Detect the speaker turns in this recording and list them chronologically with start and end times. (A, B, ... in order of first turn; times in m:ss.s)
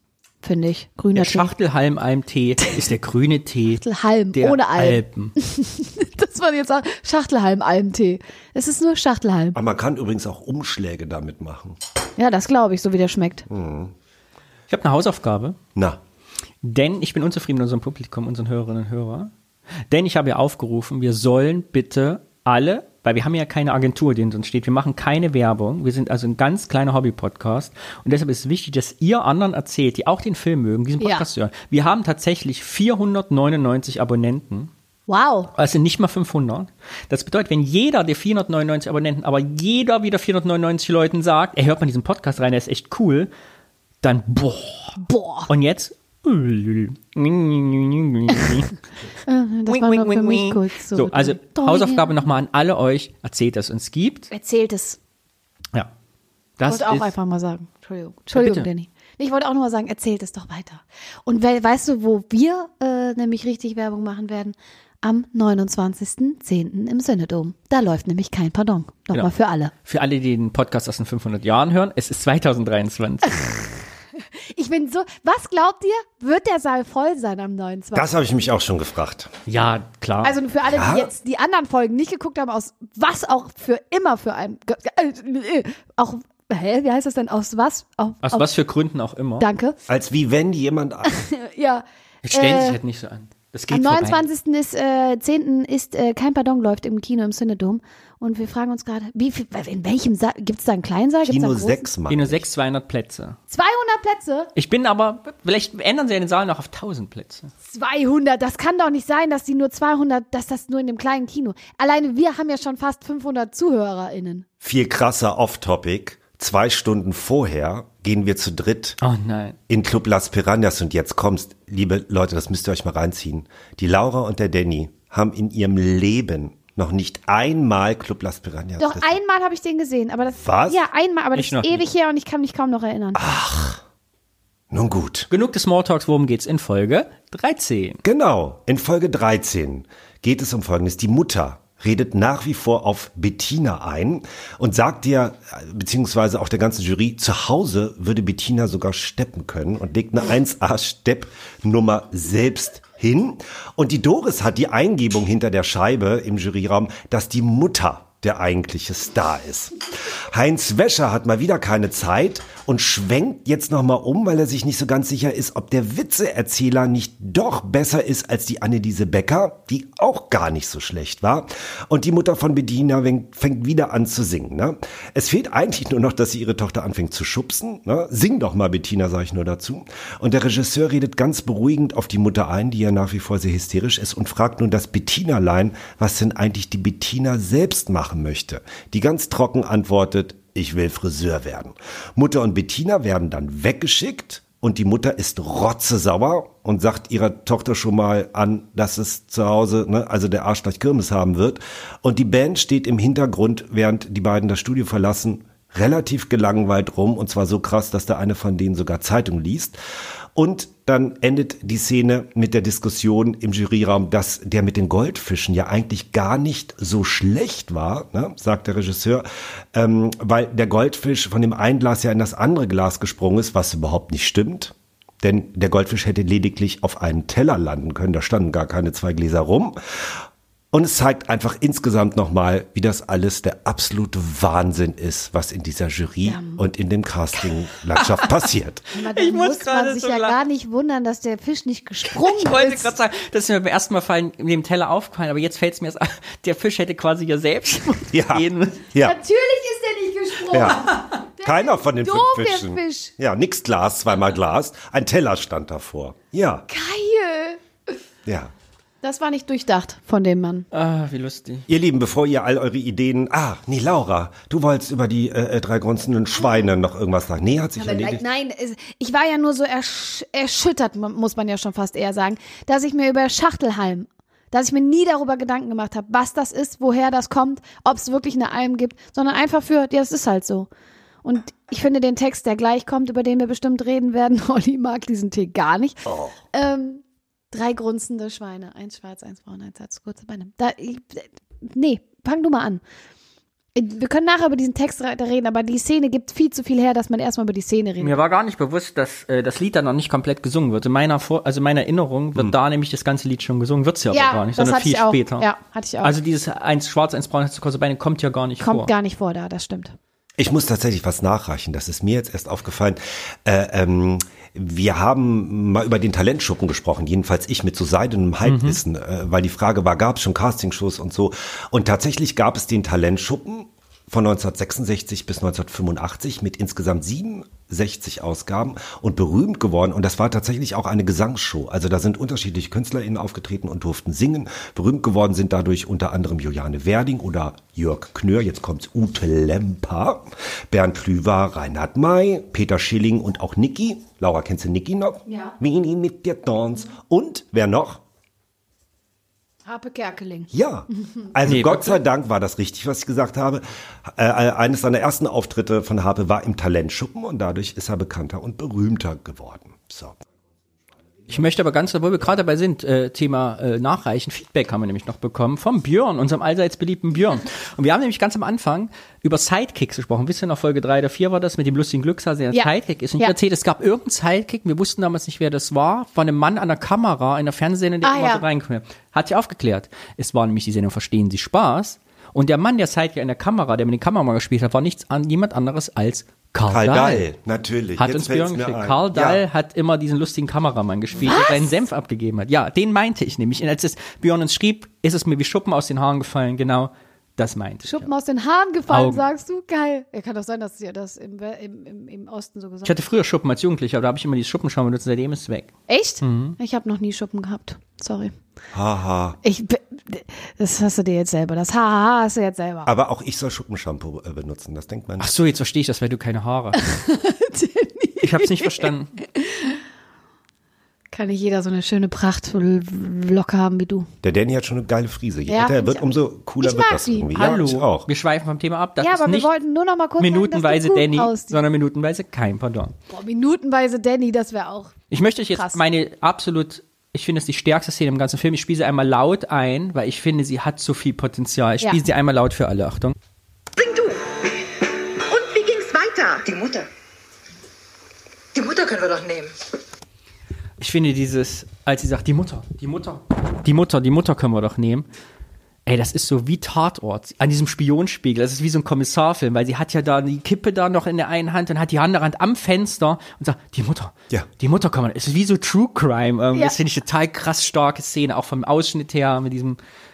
0:00.4-0:01.5 A
0:01.1-0:05.3 B
0:03.8-0:09.6 A
0:09.5-0:11.8 C
0:12.2-0:13.4 A
0:13.5-0:13.9 C
0:14.7-0:15.6 B
0:16.6-0:19.3 B
0:19.9-0:34.7 B
0:31.0-0:31.3 A
0:35.1-0:35.5 A
0:35.6-0:43.3 B
0:44.0-0:48.8 B
0:45.0-0:45.5 A
0:49.2-0:52.1 A
0:49.6-0:54.3 B
0:54.3-0:55.0 A
0:56.6-0:57.1 B
0:56.7-1:09.7 A
0:58.3-0:58.7 B
1:09.8-1:13.7 B
1:14.2-1:18.1 A
1:17.9-1:19.3 C
1:19.4-1:20.3 B
1:20.2-1:28.5 A
1:20.7-1:21.1 C
1:28.2-1:29.5 B
1:29.4-1:29.8 A
1:29.9-1:31.1 C
1:31.0-1:32.8 A
1:32.2-1:34.2 B
1:33.7-1:41.9 A
1:41.3-1:42.4 C
1:42.1-1:43.4 B
1:43.5-1:44.5 A
1:44.6-1:47.5 B
1:47.7-1:54.4 A
1:54.6-1:59.0 C
1:59.0-1:59.6 B
1:59.7-2:09.2 C
2:08.8-2:13.2 A
2:10.4-2:10.8 C
2:11.3-2:11.8 B
2:13.1-2:13.8 C
2:14.7-2:15.3 C
2:15.3-2:18.0 B
2:18.0-3:29.8 C
3:30.3-3:58.8 C
3:56.2-3:56.6 A
3:58.0-3:58.3 B
3:58.9-4:02.9 A
3:59.1-4:00.4 B
4:02.1-4:08.8 B
4:08.1-4:09.2 C
4:09.0-4:13.1 A
4:10.5-4:10.8 C
4:11.4-4:16.7 C
4:16.7-4:17.6 A
4:18.2-4:18.5 C
4:19.0-4:20.6 A
4:20.7-4:21.6 B
4:21.7-4:28.2 C
4:27.8-4:40.7 A
4:41.2-4:52.8 A
4:46.0-4:46.3 C
4:53.7-4:58.1 A
4:58.0-5:05.5 B
5:04.1-5:06.2 A
5:06.0-5:08.9 B
5:08.6-5:10.0 A
5:10.4-5:48.0 C
5:18.4-5:18.8 B
5:45.3-5:45.5 A
5:49.6-5:51.3 A
5:50.5-6:00.2 C
5:51.4-5:52.0 B
6:01.3-6:27.2 B
6:12.5-6:13.3 A
6:18.0-6:18.4 A
6:26.6-6:29.4 C
6:28.0-6:38.0 B
6:31.2-6:31.8 A
6:37.8-6:43.0 A
6:38.9-6:39.2 B
6:42.8-6:46.6 B
6:45.9-6:48.4 A
6:48.7-6:49.4 C
6:49.4-6:52.9 A
6:52.8-6:55.3 C
6:55.2-6:56.8 B
6:56.8-6:59.8 A
6:58.2-6:59.1 B
7:01.1-7:04.1 A
7:04.2-7:08.1 C
7:05.5-7:07.4 A
7:07.3-7:09.5 B
7:09.0-7:11.6 A
7:10.2-7:12.9 B
7:13.1-7:15.0 A
7:15.1-7:23.1 B
7:15.5-7:15.8 A
7:23.8-7:24.4 D
7:25.3-7:26.9 D
7:28.5-7:29.5 D
7:30.8-7:35.1 B
7:35.8-7:49.8 B